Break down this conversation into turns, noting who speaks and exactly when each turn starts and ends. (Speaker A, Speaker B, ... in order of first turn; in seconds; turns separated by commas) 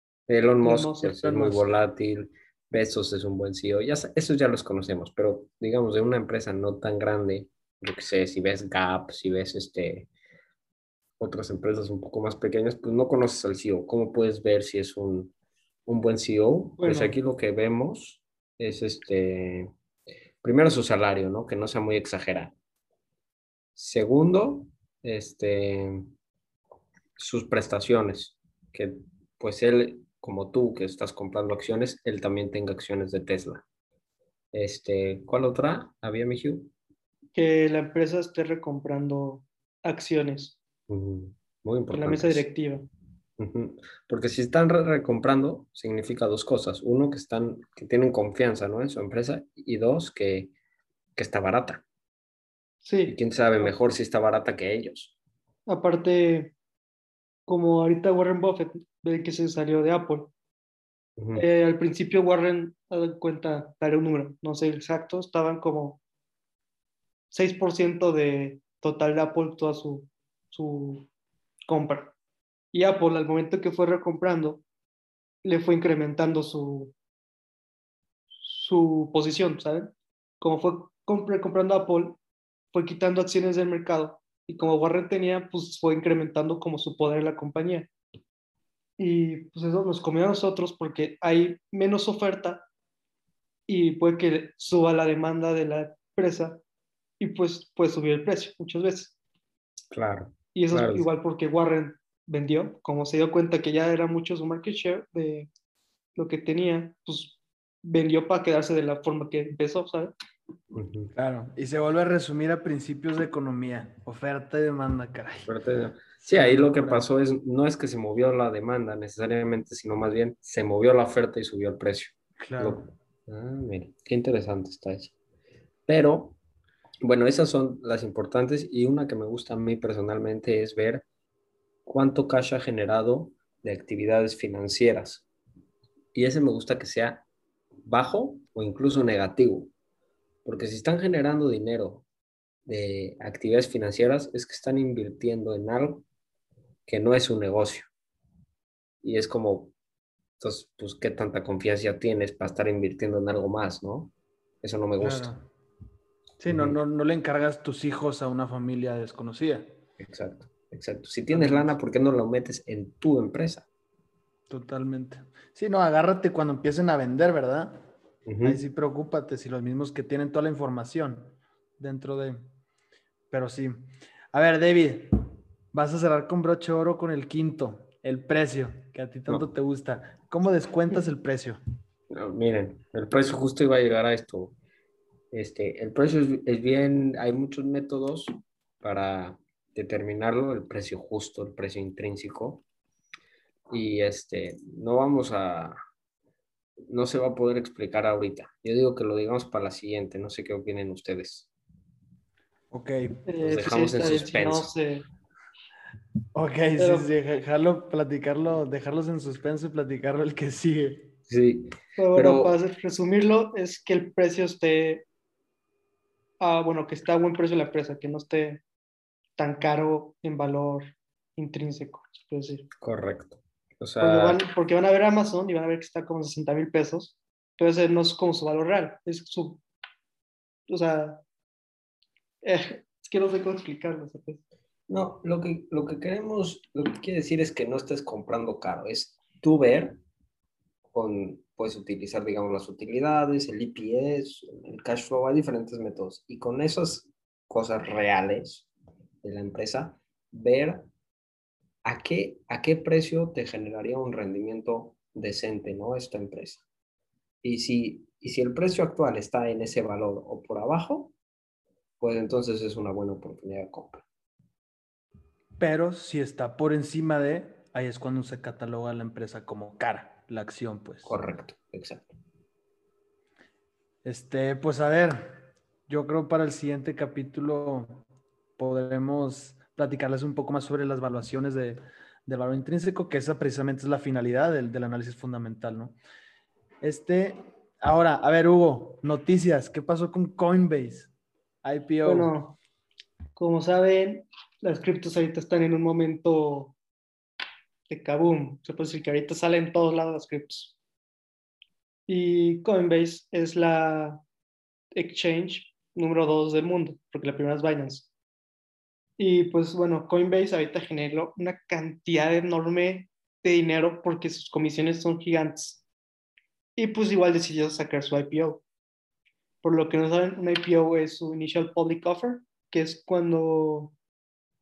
Speaker A: 0.3-10.1, Speaker B: 0.6-1.6, Speaker A: 11.2-15.3, Speaker A: 15.9-19.7, Speaker B: 16.8-17.2, Speaker A: 20.4-22.5, Speaker A: 23.8-26.1, Speaker A: 27.2-33.6, Speaker A: 34.5-36.7, Speaker B: 37.4-40.6, Speaker A: 40.9-42.5, Speaker B: 41.9-42.9, Speaker A: 43.4-50.5, Speaker A: 51.2-51.8, Speaker B: 52.8-53.7, Speaker A: 53.1-55.1, Speaker B: 55.7-56.5, Speaker B: 57.5-60.3, Speaker A: 61.2-61.5, Speaker B: 61.4-66.0, Speaker B: 67.3-71.1, Speaker B: 71.7-72.1, Speaker B: 72.7-74.6, Speaker B: 75.4-76.9, Speaker B: 78.4-82.2, Speaker B: 82.7-87.9, Speaker B: 89.0-92.6, Speaker B: 93.7-96.6, Speaker B: 97.2-99.1, Speaker A: 99.9-101.1, Speaker B: 100.5-105.5, Speaker B: 106.2-110.1, Speaker A: 110.7-111.1, Speaker C: 111.2-115.5, Speaker A: 115.5-125.1, Speaker C: 116.3-117.1, Speaker C: 122.4-122.8, Speaker A: 125.9-126.4, Speaker A: 127.0-131.1, Speaker A: 131.9-135.2, Speaker A: 136.1-137.2, Speaker A: 137.8-139.7, Speaker A: 140.4-142.1, Speaker A: 142.7-146.1, Speaker A: 146.9-147.9, Speaker A: 149.0-149.7, Speaker A: 150.4-155.3, Speaker C: 155.0-155.4, Speaker C: 156.4-159.7, Speaker A: 156.5-156.8, Speaker A: 160.0-163.7, Speaker C: 161.3-161.8, Speaker C: 164.5-167.9, Speaker A: 168.3-168.6, Speaker C: 168.4-172.4, Speaker C: 173.3-175.2, Speaker C: 175.7-181.6, Speaker A: 182.1-184.6, Speaker A: 185.3-192.6, Speaker A: 193.7-195.8, Speaker A: 196.9-201.5, Speaker C: 202.7-203.2, Speaker B: 203.3-205.1, Speaker A: 203.4-204.7, Speaker C: 206.3-211.1, Speaker B: 206.8-207.1, Speaker A: 211.3-212.6, Speaker B: 212.0-215.1, Speaker B: 216.4-218.6, Speaker B: 219.4-222.7, Speaker A: 222.8-224.4, Speaker B: 224.0-229.6, Speaker B: 230.7-231.2, Speaker B: 232.4-234.4, Speaker A: 234.9-240.0, Speaker A: 240.9-248.7, Speaker A: 249.2-250.9, Speaker A: 251.8-256.6, Speaker A: 257.4-261.1, Speaker A: 262.0-264.1, Speaker C: 265.6-271.2, Speaker A: 271.1-272.1, Speaker C: 274.1-278.0, Speaker C: 278.6-285.9, Speaker C: 286.8-291.1, Speaker C: 291.6-292.3, Speaker B: 292.0-292.6, Speaker B: 293.4-296.8, Speaker B: 297.9-300.8, Speaker B: 302.1-304.2, Speaker B: 304.9-308.1, Speaker B: 309.2-315.8, Speaker B: 316.8-318.6, Speaker B: 319.6-323.9